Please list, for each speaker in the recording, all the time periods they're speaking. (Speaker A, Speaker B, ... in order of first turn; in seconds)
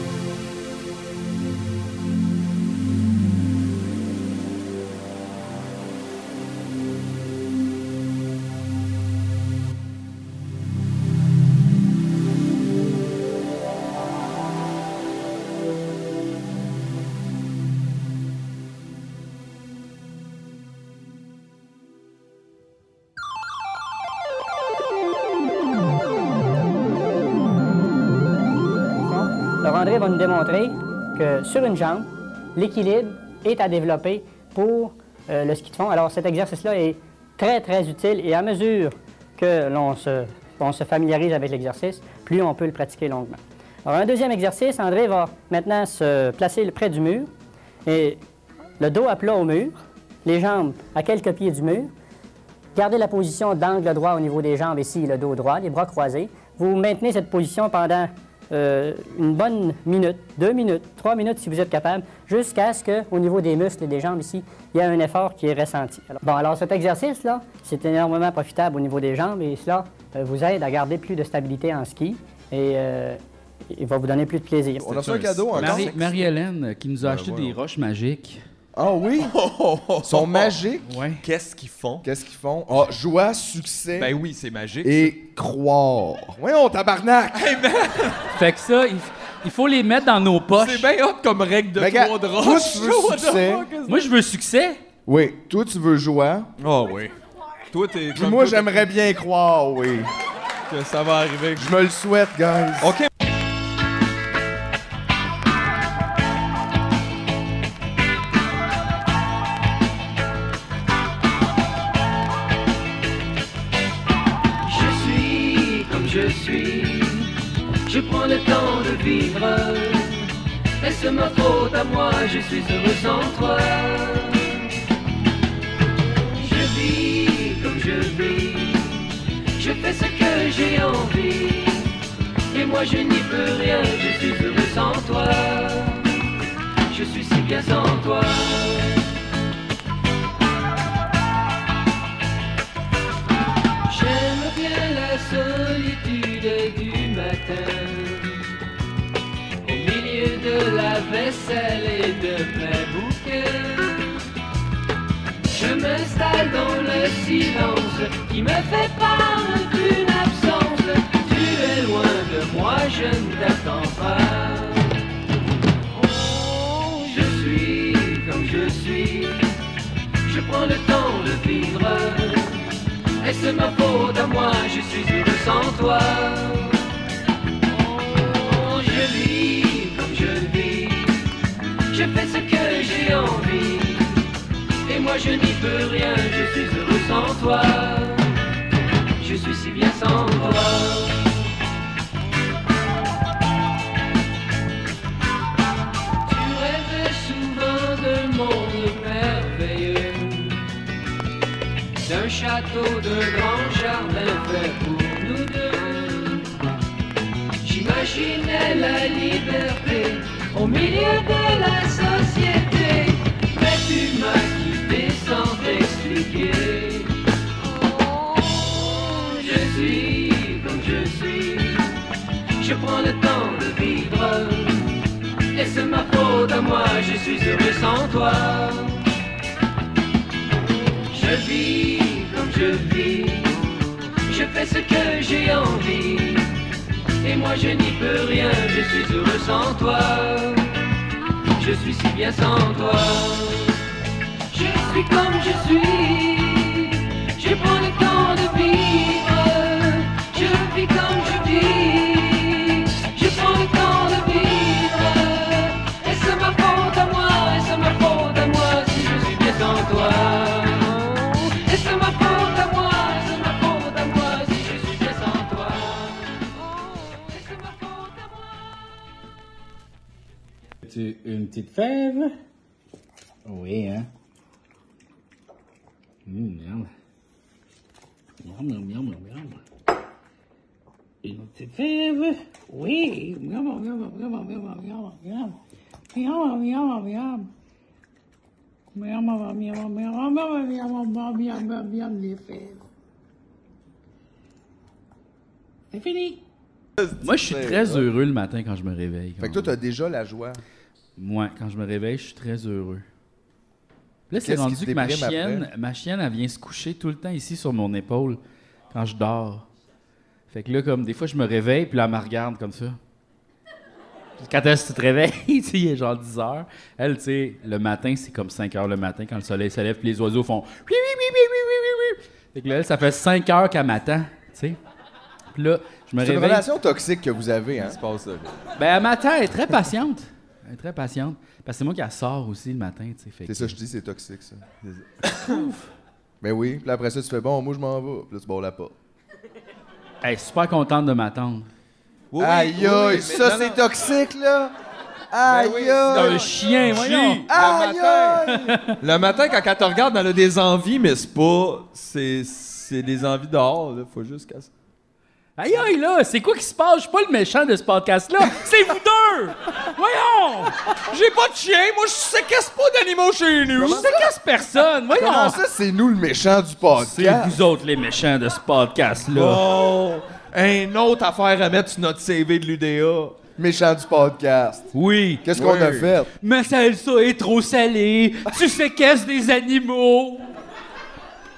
Speaker A: 29.1-47.3, 47.9-48.2, 48.8-51.9, 52.7-73.2, 73.7-75.1
Speaker B: 74.8-76.0, 77.0-77.5, 78.7-79.3, 80.0-80.9, 82.0-84.1, 84.8-87.6, 91.8-93.7, 95.0-96.5, 98.1-100.1, 101.5-103.0, 297.0-298.0, 299.4-300.6, 304.3-305.7, 326.2-328.0, 333.4-334.6, 336.4-338.9, 342.4-344.8, 345.3-346.5, 347.5-348.8, 363.7-364.3, 365.1-367.6, 373.6-374.9, 375.4-376.3
Speaker C: 75.0-76.2, 79.2-80.6, 81.2-82.0, 84.0-85.1, 87.3-88.2, 90.6-94.1, 96.6-97.1, 97.7-98.9, 100.7-101.7, 102.8-103.1, 327.8-328.5, 334.8-335.7, 342.3-343.8, 345.5-348.4, 349.0-354.7, 361.0-364.1, 369.3-373.4, 375.5-376.1
Speaker D: 75.6-78.4, 80.8-81.2, 88.3-90.9, 93.9-94.8, 270.9-272.3, 273.5-274.1, 276.3-276.9, 278.4-279.6, 281.3-282.2, 282.8-285.4, 286.2-287.3, 297.2-299.7, 301.2-303.0, 304.3-308.4, 308.9-309.6, 310.5-313.0, 314.4-324.8, 325.5-326.7, 328.8-333.8, 335.3-335.9, 340.2-341.7, 346.1-347.5, 348.4-349.0, 355.6-360.8, 363.8-365.6, 366.9-369.6, 374.9-375.4, 376.4-380.5
Speaker E: 114.6-117.3, 117.8-124.7, 126.3-131.9, 132.5-136.3, 136.9-139.1, 143.9-148.5, 149.6-154.2, 155.5-165.0, 166.6-169.5, 170.2-176.9, 178.1-181.3, 181.9-184.2, 184.8-188.4, 189.2-191.4, 196.2-200.7, 202.0-206.5, 207.6-217.2, 218.8-221.9, 222.6-224.9, 225.5-229.1, 231.1-233.7, 234.2-236.6, 237.2-240.9, 241.5-243.8, 244.5-268.5
Speaker F: 271.0-272.2, 281.3-285.6, 286.1-287.4, 288.9-292.8, 295.9-296.4